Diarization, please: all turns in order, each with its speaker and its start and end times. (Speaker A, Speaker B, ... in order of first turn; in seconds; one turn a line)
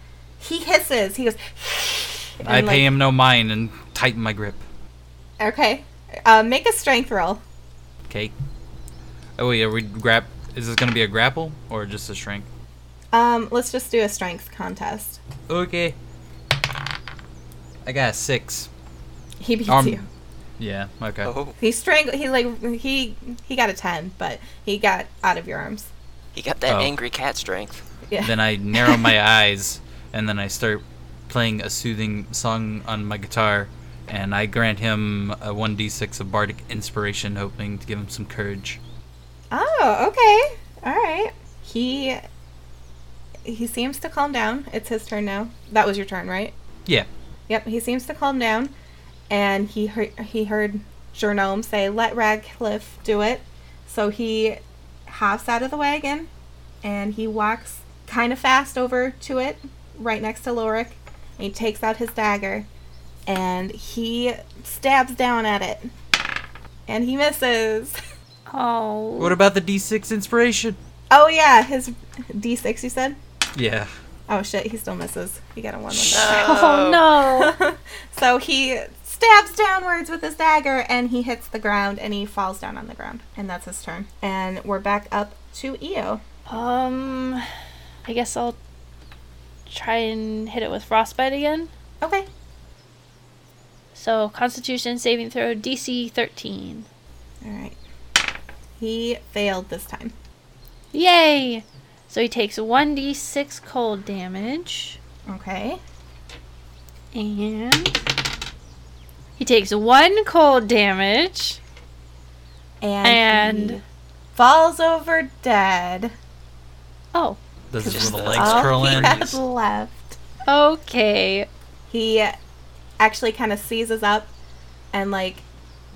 Speaker A: 0.4-3.0
Speaker B: 2.5-4.6
Speaker A: 5.4-7.4
Speaker B: 9.4-12.5
Speaker A: 13.1-15.2
Speaker B: 15.5-16.0
Speaker B: 17.9-18.7
Speaker A: 19.4-20.1
Speaker B: 19.7-20.0
Speaker B: 20.6-21.3
Speaker C: 21.2-21.6
Speaker A: 21.6-25.9
Speaker C: 26.4-27.8
Speaker A: 28.1-29.1
Speaker B: 28.2-38.8
Speaker A: 39.5-42.2
Speaker A: 43.5-46.5
Speaker A: 47.5-48.7
Speaker A: 49.3-56.3
Speaker A: 56.8-62.7
Speaker A: 63.3-65.9
Speaker A: 66.9-68.0
Speaker D: 68.5-69.4
Speaker B: 69.2-70.8
Speaker A: 71.1-73.2
Speaker B: 73.6-73.9
Speaker A: 74.3-86.2
Speaker D: 76.1-77.5
Speaker C: 76.1-77.1
Speaker D: 86.5-87.5
Speaker D: 88.1-88.6
Speaker D: 89.7-91.7
Speaker A: 92.0-92.3
Speaker D: 94.0-96.9
Speaker A: 97.4-97.8
Speaker A: 98.8-100.1
Speaker D: 100.9-105.0
Speaker A: 105.3-105.8
Speaker D: 107.1-108.0
Speaker D: 109.4-111.6
Speaker A: 112.8-113.8
Speaker D: 113.0-113.8
Speaker A: 114.3-116.1
Speaker D: 117.1-117.4
Speaker B: 117.7-119.2
Speaker A: 117.8-120.2
Speaker C: 117.9-119.4
Speaker D: 120.5-121.5
Speaker A: 121.9-122.4
Speaker A: 123.0-124.3
Speaker A: 124.9-125.5